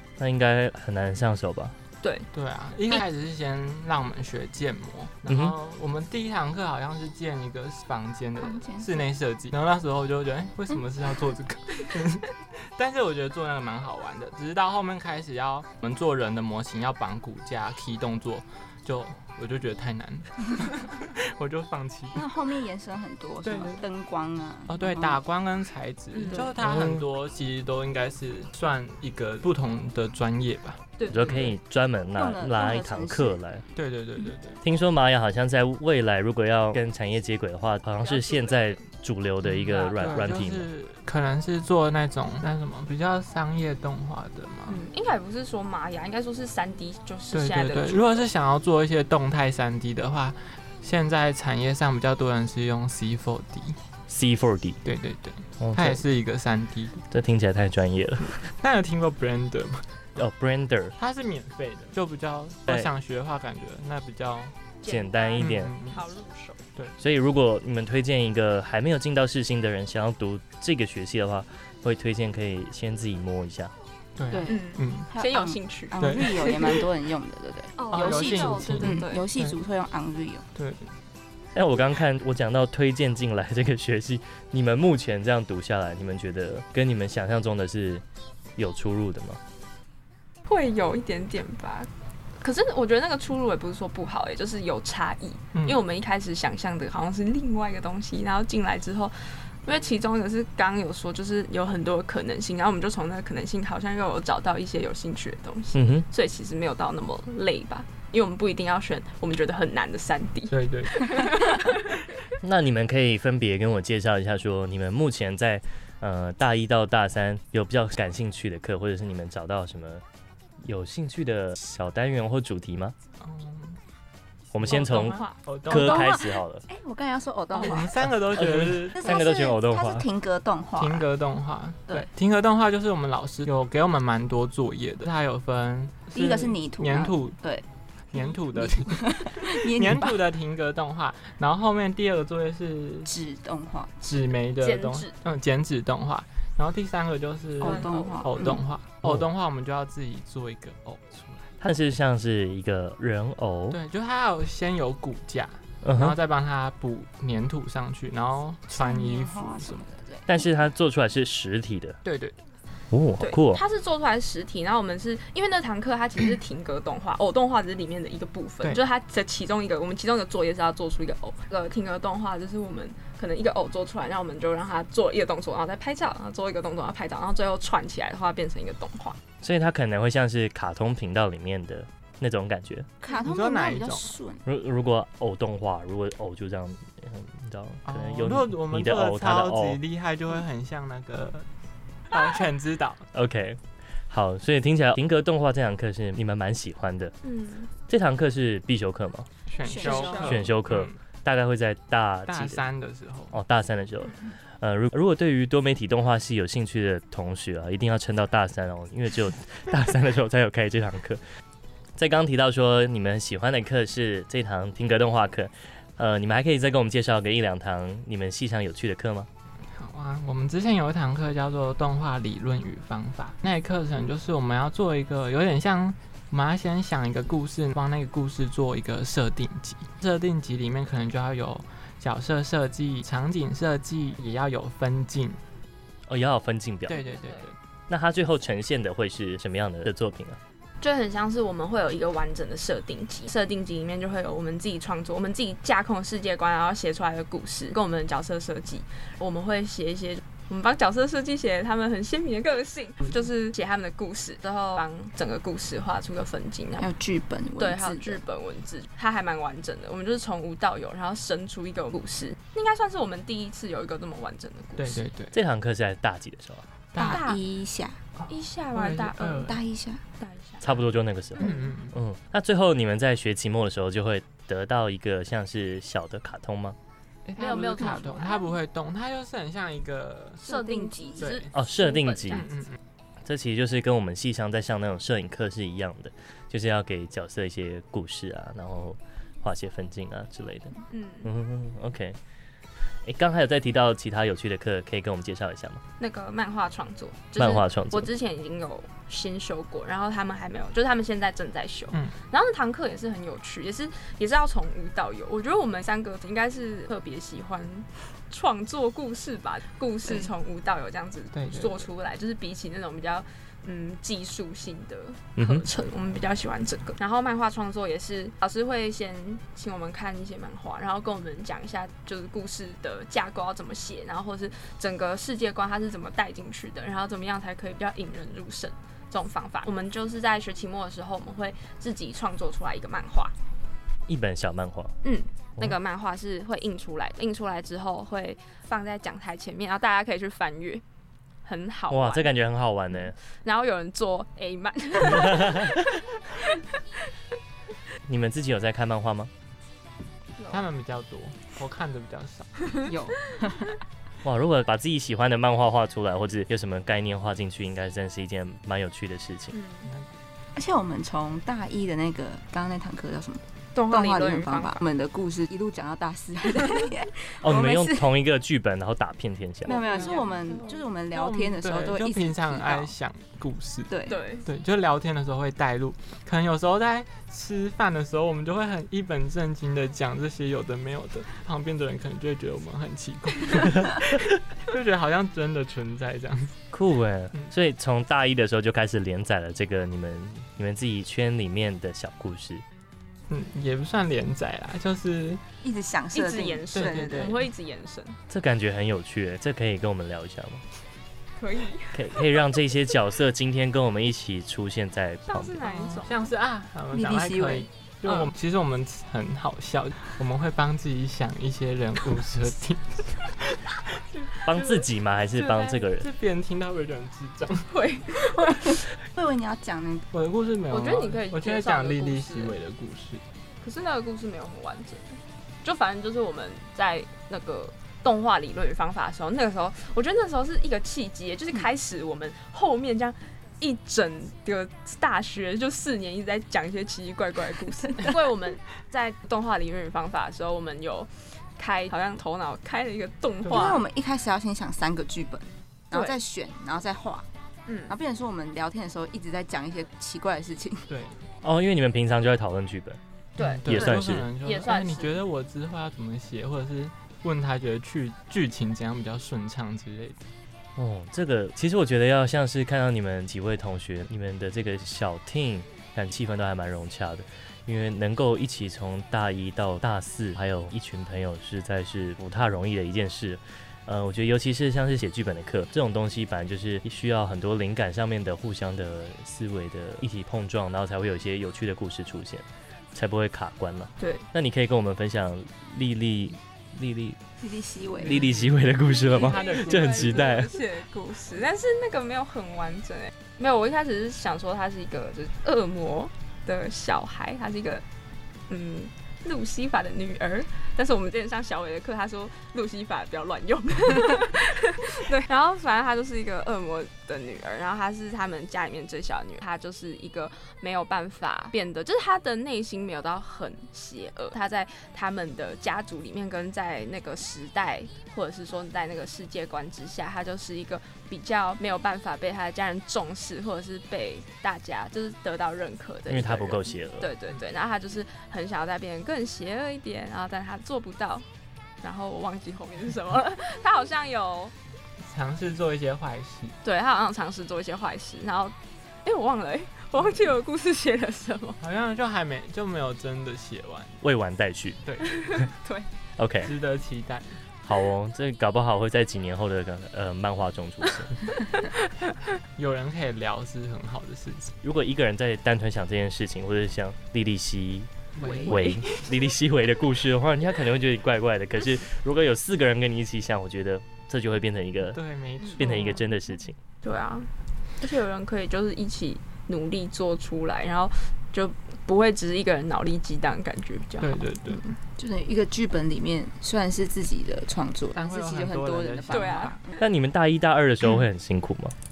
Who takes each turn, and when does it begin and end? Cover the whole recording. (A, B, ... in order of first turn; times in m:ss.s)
0:00.2-0:01.8 A
0:02.0-0:02.3 B
0:02.3-0:22.2 C
0:05.3-0:05.5 A
0:08.4-0:09.1 D
0:22.1-0:25.2 D
0:23.4-0:23.8 C
0:24.7-0:31.6 C
0:26.1-0:26.5 B
0:26.3-0:26.6 D
0:26.6-0:27.1 A
0:31.0-0:31.5 B
0:31.1-0:33.6 A
0:32.1-0:33.4 D
0:33.7-0:34.6 C
0:34.6-0:40.7 A
0:38.0-0:38.8 B
0:39.4-0:44.9 C
0:44.7-0:48.3 B
0:47.3-0:53.8 C
0:54.1-0:54.8 A
0:54.8-0:57.0 C
0:55.6-0:56.0 A
0:57.1-0:58.4 A
0:58.2-1:00.3 C
1:00.2-1:00.9 A
1:01.0-1:04.5 C
1:04.8-1:06.6 B
1:04.8-1:05.7 A
1:05.4-1:06.0 C
1:07.0-1:13.7 A
1:14.2-1:15.1 C
1:14.3-1:20.5 D
1:14.5-1:16.7 B
1:16.0-1:16.8 C
1:17.8-1:19.3 B
1:17.9-1:19.6 C
1:20.5-1:20.9 C
1:21.5-1:28.0 A
1:28.6-1:29.4 A
1:30.5-1:52.0 B
1:35.5-1:35.8 C
1:45.7-1:46.0 A
1:50.5-1:51.3 C
1:52.4-2:00.0 A
2:00.6-2:02.9 A
2:03.2-2:03.8 C
2:04.5-2:06.6 A
2:04.6-2:06.1 C
2:04.8-2:05.4 B
2:05.7-2:08.0 D
2:07.5-2:09.2 C
2:08.1-2:10.0 A
2:08.9-2:11.1 D
2:10.8-2:17.4 C
2:16.1-2:20.2 D
2:18.1-2:23.1 C
2:23.0-2:24.0 D
2:24.0-2:31.5 C
2:24.6-2:25.1 B
2:27.6-2:28.7 D
2:27.6-2:28.6 B
2:31.6-2:33.8 A
2:33.7-2:39.8 C
2:35.8-2:36.2 A
2:38.7-2:40.3 D
2:40.3-2:42.0 A
2:42.0-2:42.4 C
2:42.9-2:43.6 A
2:43.2-2:59.2 B
2:59.4-3:02.9 A
3:03.0-3:04.4 D
3:03.2-3:04.1 C
3:04.4-3:09.8 A
3:07.8-3:11.4 C
3:12.1-3:13.0 C
3:13.1-3:17.1 A
3:17.2-3:17.7 B
3:17.9-3:19.3 A
3:19.5-3:20.9 C
3:19.6-3:20.5 D
3:19.8-3:20.3 B
3:20.2-3:22.6 A
3:22.3-3:23.3 C
3:23.3-3:31.2 A
3:32.0-3:39.3 A
3:39.7-3:55.4 C
3:56.1-3:57.0 A
3:56.9-3:57.6 C
3:56.9-3:57.5 B
3:57.9-4:00.4 A
4:00.8-4:16.9 B
4:16.8-4:18.2 D
4:17.6-4:25.0 B
4:24.8-4:25.3 C
4:25.3-4:26.7 A
4:26.9-4:27.2 C
4:27.0-4:28.0 D
4:27.0-4:27.4 B
4:28.2-4:29.6 C
4:28.3-4:29.5 B
4:29.3-4:30.0 D
4:30.2-4:30.6 B
4:30.6-4:36.8 A
4:31.4-4:31.7 D
4:31.4-4:32.0 C
4:37.2-4:40.4 C
4:37.4-4:38.3 D
4:37.4-4:38.5 B
4:40.4-4:42.5 B
4:40.5-4:41.4 D
4:41.2-4:41.5 C
4:41.5-4:42.4 A
4:42.3-4:42.8 C
4:43.2-4:52.2 A
4:50.9-4:51.3 B
4:53.0-4:55.8 A
4:56.0-5:33.3 B
4:57.4-4:58.1 A
5:11.3-5:11.9 C
5:15.4-5:15.6 A
5:34.1-5:35.0 A
5:35.0-5:40.8 B
5:41.4-5:42.3 B
5:41.9-5:43.2 A
5:43.2-5:45.8 B
5:45.2-5:45.7 A
5:48.0-5:49.3 A
5:50.4-5:50.6 B
5:50.5-5:52.5 C
5:52.8-5:53.7 D
5:54.2-5:59.5 A
5:59.5-5:59.9 B
6:00.5-6:08.1 D
6:03.7-6:04.8 B
6:07.4-6:09.8 A
6:09.6-6:12.9 D
6:09.7-6:10.8 B
6:11.1-6:26.6 C
6:13.9-6:14.2 D
6:14.1-6:14.5 B
6:26.7-6:32.6 A
6:33.3-6:35.4 C
6:35.6-6:37.4 D
6:36.1-6:38.2 B
6:36.7-6:37.4 C
6:38.3-6:40.6 A
6:41.4-6:42.2 B
6:41.9-6:45.6 A
6:45.3-6:46.3 B
6:45.6-6:54.8 C
6:46.9-6:47.7 D
6:48.0-6:48.3 B
6:54.4-6:56.1 A
6:55.3-6:57.7 C
6:57.7-6:58.8 B
6:59.0-7:00.1 D
7:00.1-7:03.2 C
7:00.7-7:02.6 B
7:03.6-7:23.8 B
7:23.4-7:23.7 C
7:23.5-7:27.3 D
7:27.7-7:27.9 B
7:27.9-7:30.9 D
7:30.9-7:31.2 C
7:31.4-7:33.0 A
7:33.4-7:35.2 B
7:33.4-7:40.2 C
7:33.6-7:34.3 A
7:40.8-8:07.2 A
8:04.0-8:04.2 B
8:07.4-8:08.2 D
8:08.0-8:10.4 C
8:08.0-8:10.5 A
8:08.9-8:17.8 B
8:18.5-8:51.3 B
8:46.1-8:47.1 A
8:51.8-8:54.5 B
8:55.0-8:56.6 C
8:56.6-9:01.6 B
9:01.6-9:04.0 C
9:04.0-9:04.8 A
9:04.8-9:05.2 C
9:05.1-9:05.9 B
9:06.2-9:06.5 A
9:06.4-9:07.4 C
9:07.6-9:11.2 A
9:11.6-9:12.1 B
9:12.6-9:14.5 C
9:14.6-9:17.9 A
9:18.2-9:18.8 C
9:18.2-9:18.5 D
9:18.4-9:25.0 A
9:18.4-9:18.8 B
9:24.9-9:26.0 C
9:25.6-9:26.6 A
9:25.7-9:26.0 B
9:26.8-9:34.6 B
9:34.0-9:34.8 C
9:35.0-9:39.7 D
9:37.9-9:39.5 C
9:39.1-9:39.5 B
9:39.8-9:41.7 A